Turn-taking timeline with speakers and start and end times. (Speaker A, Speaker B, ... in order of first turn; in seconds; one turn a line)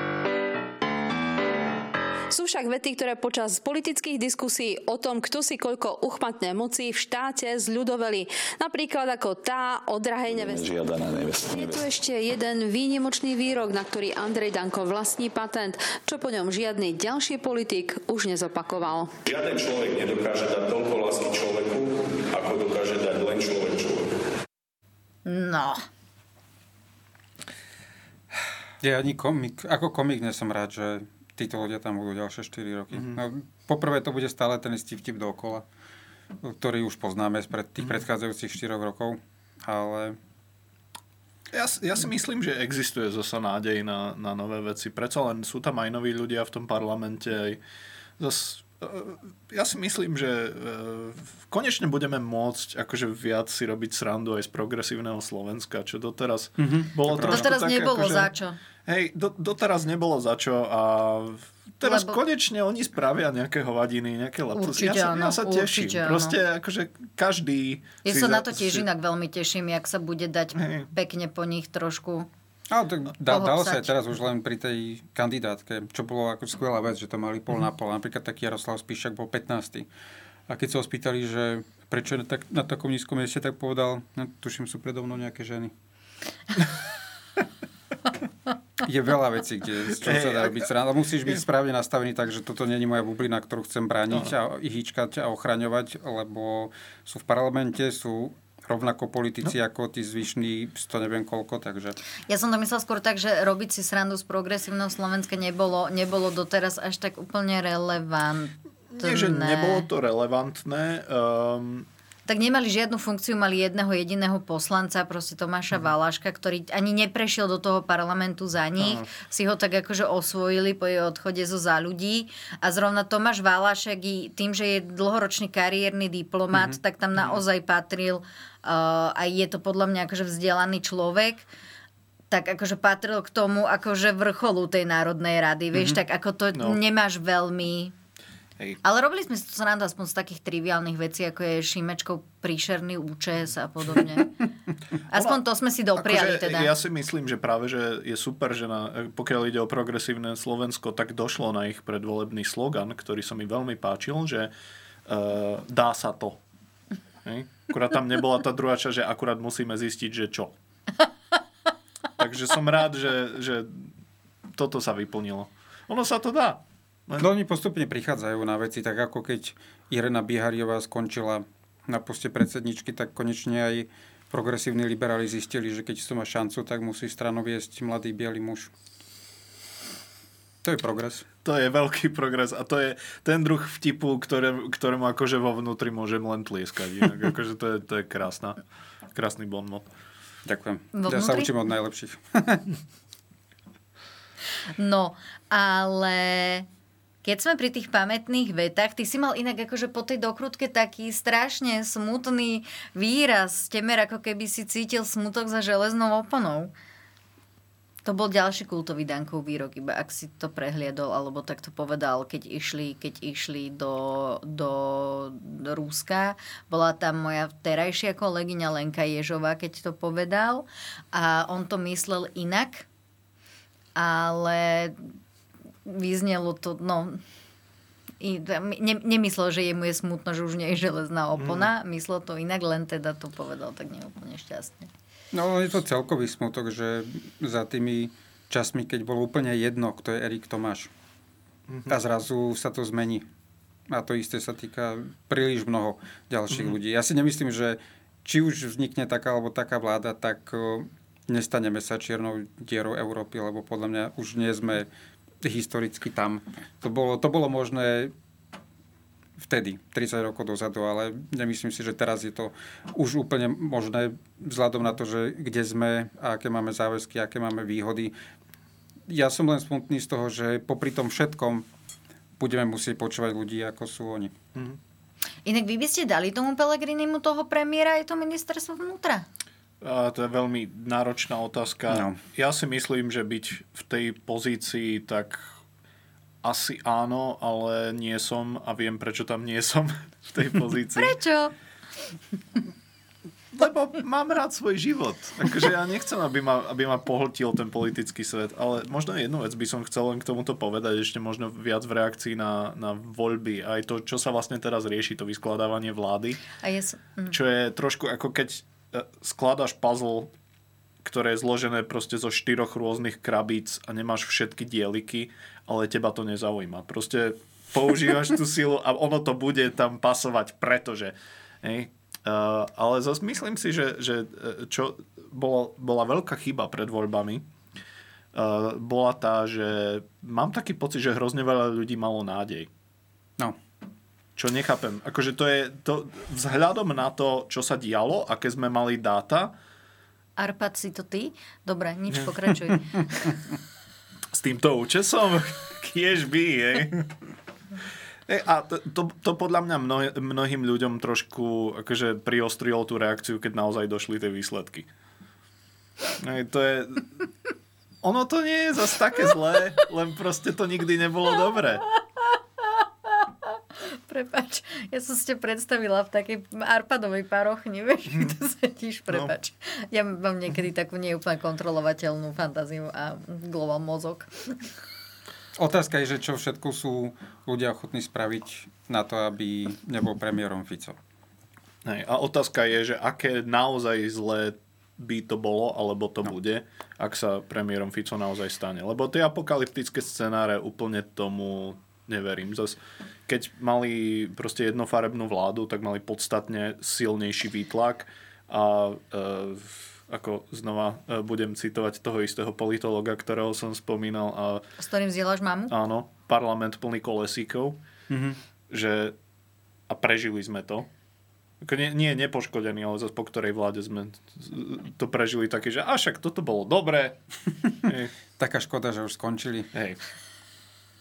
Speaker A: 2.3-10.7
Speaker B: 10.2-11.8
Speaker A: 11.4-19.1
Speaker B: 19.4-21.8
Speaker B: 22.3-23.9
Speaker C: 25.2-25.8
Speaker D: 28.8-35.6
Speaker E: 32.9-33.2
Speaker D: 36.4-40.2
Speaker E: 41.5-47.6
Speaker E: 48.2-58.3
Speaker D: 56.6-57.5
Speaker C: 57.2-58.6
Speaker E: 58.9-68.8
Speaker C: 61.8-62.2
Speaker C: 64.5-66.4
Speaker C: 68.0-72.3
Speaker E: 70.5-70.9
Speaker D: 72.7-79.9
Speaker C: 73.2-73.9
Speaker D: 80.5-85.7
Speaker D: 88.8-102.0
Speaker E: 90.0-90.7
Speaker C: 102.3-109.9
Speaker E: 108.9-111.9
Speaker C: 112.3-131.4
Speaker E: 118.8-119.1
Speaker C: 132.3-137.9
Speaker E: 136.5-136.8
Speaker C: 138.8-144.3
Speaker C: 145.1-146.7
Speaker E: 145.1-145.4
Speaker E: 145.9-154.5
Speaker E: 155.1-156.4
Speaker E: 157.2-160.5
Speaker E: 162.2-163.9
Speaker E: 164.5-167.3
Speaker D: 167.2-178.7
Speaker D: 180.6-181.2
Speaker E: 181.4-188.6
Speaker E: 189.1-189.9
Speaker D: 190.5-192.6
Speaker C: 190.9-191.5
Speaker C: 194.8-196.7
Speaker C: 197.2-206.7
Speaker C: 208.0-222.8
Speaker C: 223.9-225.0
Speaker C: 225.8-227.2
Speaker C: 228.2-234.9
Speaker E: 231.4-231.7
Speaker D: 235.3-240.9
Speaker E: 241.7-242.0
Speaker D: 241.9-243.2
Speaker D: 243.9-254.9
Speaker D: 255.4-258.1
Speaker D: 259.4-268.1
Speaker D: 269.1-271.6
Speaker D: 272.4-274.3
Speaker C: 275.4-279.2
Speaker E: 279.8-285.5
Speaker D: 281.9-282.2
Speaker E: 286.4-291.1
Speaker C: 291.0-291.5
Speaker E: 293.5-306.4
Speaker C: 306.6-307.3
Speaker E: 307.3-310.3
Speaker E: 311.0-327.5
Speaker E: 328.3-332.7
Speaker E: 334.4-339.5
Speaker C: 340.4-343.3
Speaker E: 344.3-347.1
Speaker E: 348.3-354.9
Speaker E: 356.2-357.2
Speaker E: 358.0-361.8
Speaker C: 363.9-374.3
Speaker D: 375.6-380.9
Speaker E: 381.8-404.6
Speaker C: 404.8-405.7
Speaker E: 405.7-407.8
Speaker D: 408.1-408.4
Speaker E: 408.7-409.1
Speaker E: 409.9-410.9
Speaker E: 411.6-417.2
Speaker E: 417.8-418.1
Speaker D: 418.4-419.7
Speaker E: 419.7-420.0